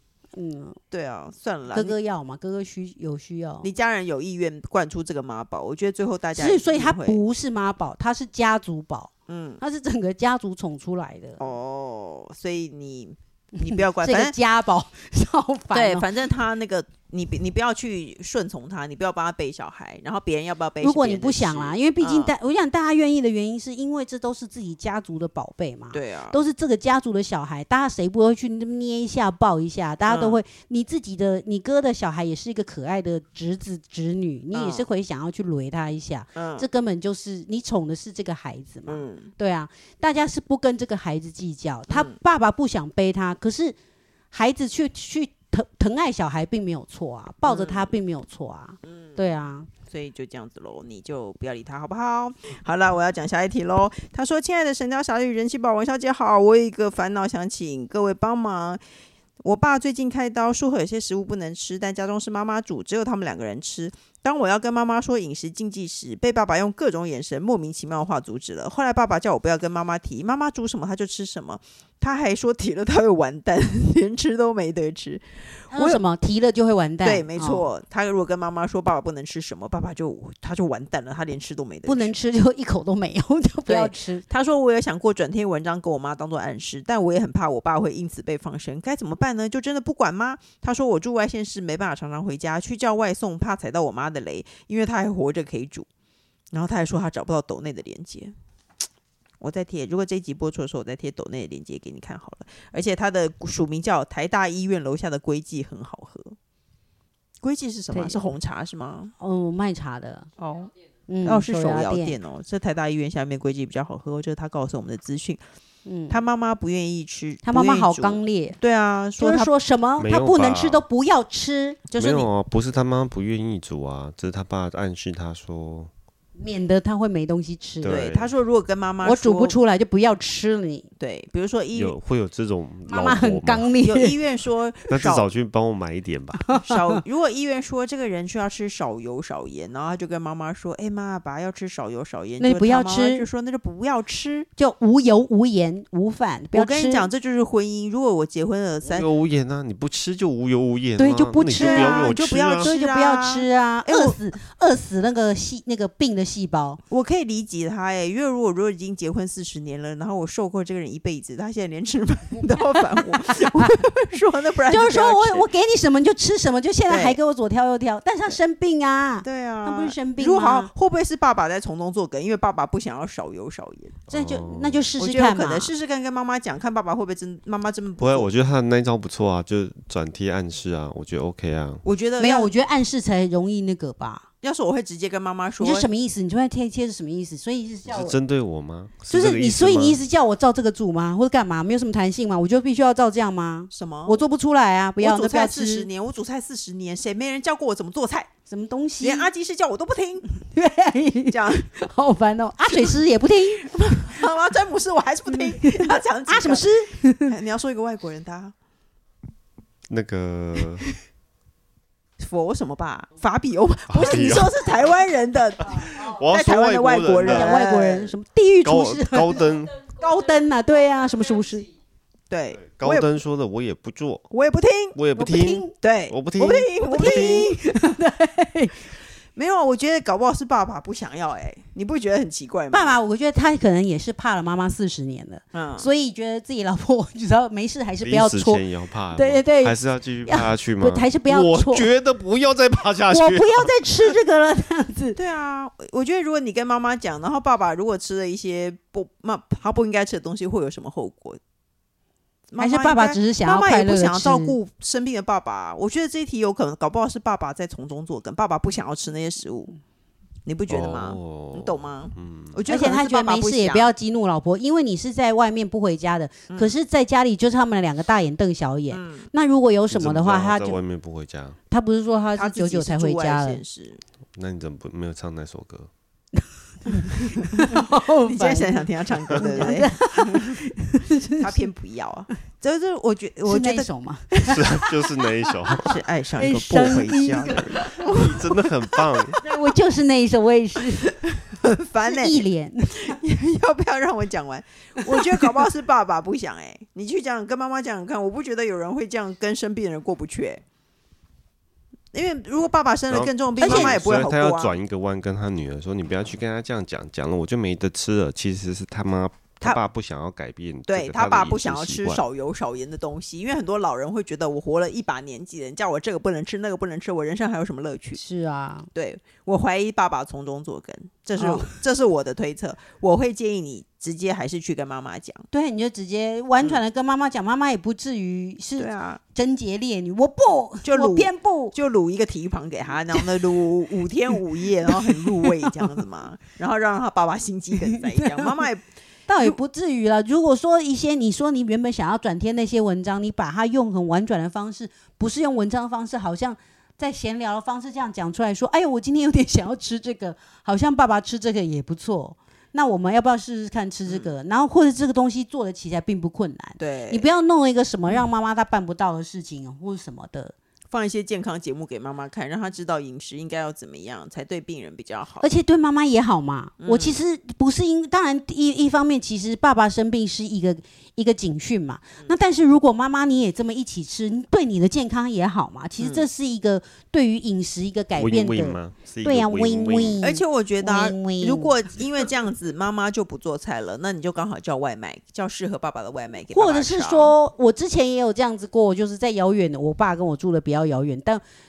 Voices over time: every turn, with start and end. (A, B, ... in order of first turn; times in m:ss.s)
0:00.4-0:00.8 A
0:00.9-0:02.0 B
0:01.7-0:03.7 A
0:03.6-0:07.2 B
0:06.4-0:11.4 A
0:09.3-0:09.6 B
0:11.4-0:14.3 B
0:13.6-0:16.0 A
0:15.7-0:22.3 B
0:20.8-0:43.8 A
0:25.9-0:26.4 B
0:30.1-0:30.4 B
0:34.5-0:34.9 B
0:36.3-0:36.6 B
0:38.9-0:39.3 B
0:41.9-0:42.1 B
0:44.3-0:49.7 A
0:47.4-0:48.0 B
0:48.8-0:49.2 B
0:49.9-0:58.8 B
0:59.4-1:16.0 B
1:15.7-1:17.7 A
1:17.0-1:22.1 B
1:21.8-1:24.2 A
1:23.7-1:35.9 B
1:36.5-1:38.3 B
1:39.4-1:46.4 B
1:47.4-1:49.1 B
1:47.9-1:48.2 A
1:49.2-1:50.3 A
1:50.4-1:50.7 B
1:51.1-1:52.2 A
1:51.2-1:55.4 B
1:55.8-1:56.2 A
1:56.1-1:59.5 B
1:57.4-1:58.6 A
1:59.2-2:01.8 A
2:00.0-2:00.8 C
2:01.9-2:02.3 B
2:02.0-2:05.9 C
2:06.4-2:08.0 A
2:07.8-2:08.3 C
2:07.9-2:09.6 B
2:09.0-2:10.9 A
2:11.0-2:12.0 B
2:11.7-2:13.7 C
2:12.9-2:14.2 A
2:13.8-2:15.3 B
2:14.9-2:16.4 C
2:16.5-2:17.0 A
2:16.6-2:24.5 B
2:22.4-2:23.2 A
2:24.6-2:27.1 A
2:26.5-2:29.1 B
2:28.8-2:32.7 C
2:31.0-2:36.8 A
2:31.6-2:34.2 B
2:36.9-2:45.5 B
2:43.4-2:43.7 A
2:44.7-2:50.7 A
2:46.9-2:47.2 B
2:49.2-2:54.0 B
2:54.1-2:55.7 A
2:54.1-2:54.8 C
2:55.0-2:58.3 B
2:58.0-3:01.8 C
3:01.8-3:02.5 B
3:02.2-3:04.2 A
3:04.4-3:05.9 B
3:05.6-3:08.2 A
3:07.9-3:10.0 C
3:09.1-3:15.9 A
3:13.7-3:14.2 B
3:15.0-3:18.3 B
3:18.5-3:19.3 A
3:19.0-3:20.2 B
3:20.5-3:23.7 A
3:21.3-3:21.7 B
3:23.6-3:28.5 B
3:25.3-3:27.3 A
3:29.9-3:30.8 C
3:32.2-3:38.1 B
3:33.9-3:34.6 C
3:36.0-3:37.6 C
3:37.2-3:41.7 A
3:38.6-3:39.8 C
3:42.3-3:43.1 B
3:42.6-3:44.2 C
3:44.3-3:45.0 B
3:44.9-3:47.5 C
3:45.1-3:45.7 A
3:45.8-3:47.6 B
3:46.9-3:48.9 A
3:49.4-3:53.0 B
3:52.7-4:01.9 A
3:55.5-3:55.9 B
3:58.0-4:03.7 C
4:03.1-4:05.2 A
4:05.1-4:11.4 B
4:12.5-4:19.7 B
4:12.6-4:14.6 A
4:20.4-4:23.9 B
4:20.7-4:22.6 C
4:22.7-4:30.8 A
4:28.9-4:29.3 B
4:29.9-4:31.6 C
4:31.7-4:33.6 A
4:32.3-4:34.0 B
4:34.4-4:35.9 C
4:36.8-4:41.7 A
4:38.2-4:40.6 B
4:41.4-4:44.6 B
4:43.4-4:44.9 A
4:44.5-4:45.9 C
4:45.8-4:48.4 B
4:46.4-4:48.0 A
4:46.7-4:47.0 C
4:48.0-4:49.4 C
4:49.4-4:51.1 A
4:51.2-4:52.4 B
4:52.0-4:53.1 A
4:53.0-5:00.6 B
4:55.1-4:55.5 A
5:02.1-5:04.8 B
5:03.1-5:12.2 C
5:03.6-5:04.0 A
5:10.9-5:18.2 B
5:18.1-5:18.9 A
5:18.9-5:25.4 B
5:21.4-5:21.7 A
5:25.5-5:31.7 A
5:28.8-5:29.2 B
5:30.8-5:38.8 B
5:34.9-5:35.4 A
5:37.9-5:38.5 A
5:39.3-6:00.5 A
5:54.0-5:54.3 B
5:56.8-5:57.3 B
6:00.9-6:05.5 B
6:05.4-6:21.8 A
6:06.8-6:07.2 B
6:16.0-6:16.3 B
6:18.2-6:20.2 C
6:20.2-6:27.3 B
6:26.5-6:31.4 A